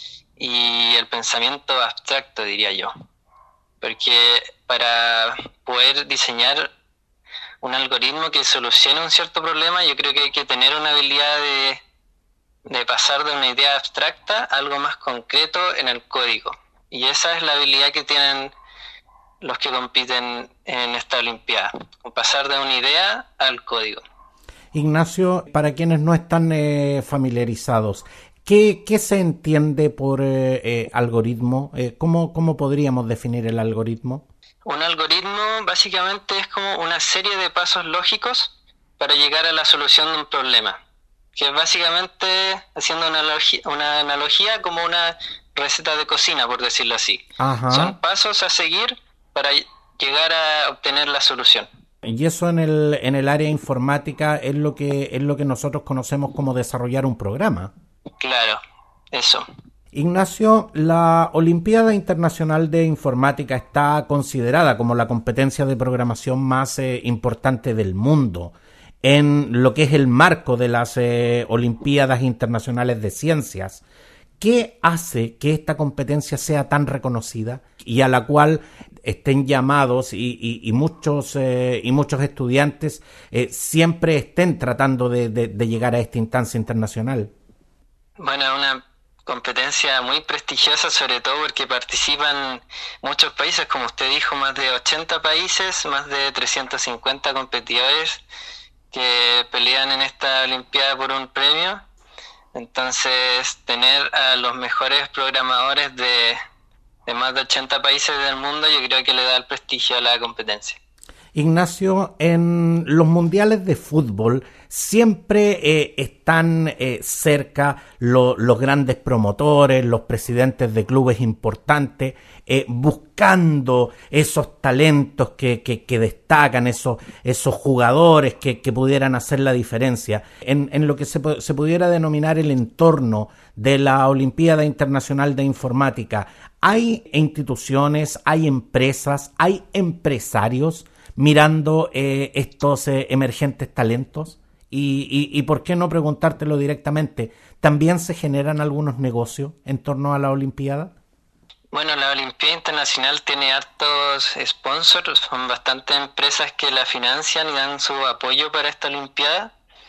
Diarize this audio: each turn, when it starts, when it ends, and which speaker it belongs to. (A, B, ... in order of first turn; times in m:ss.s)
0:00.4-0:02.9 A
0:03.8-0:06.7 A
0:07.6-0:11.8 A
0:12.7-0:18.5 A
0:19.4-0:24.0 A
0:24.7-0:34.2 B
0:34.6-0:40.8 A
0:41.4-0:51.7 A
0:47.4-0:48.0 B
0:52.0-0:57.7 B
0:58.2-0:58.6 A
0:59.1-0:59.5 A
0:59.9-1:13.8 B
1:14.4-1:27.3 B
1:28.2-1:38.2 A
1:38.9-1:41.8 A
1:42.5-1:46.4 A
1:47.1-1:50.8 A
1:51.3-2:30.9 B
2:31.7-2:39.5 A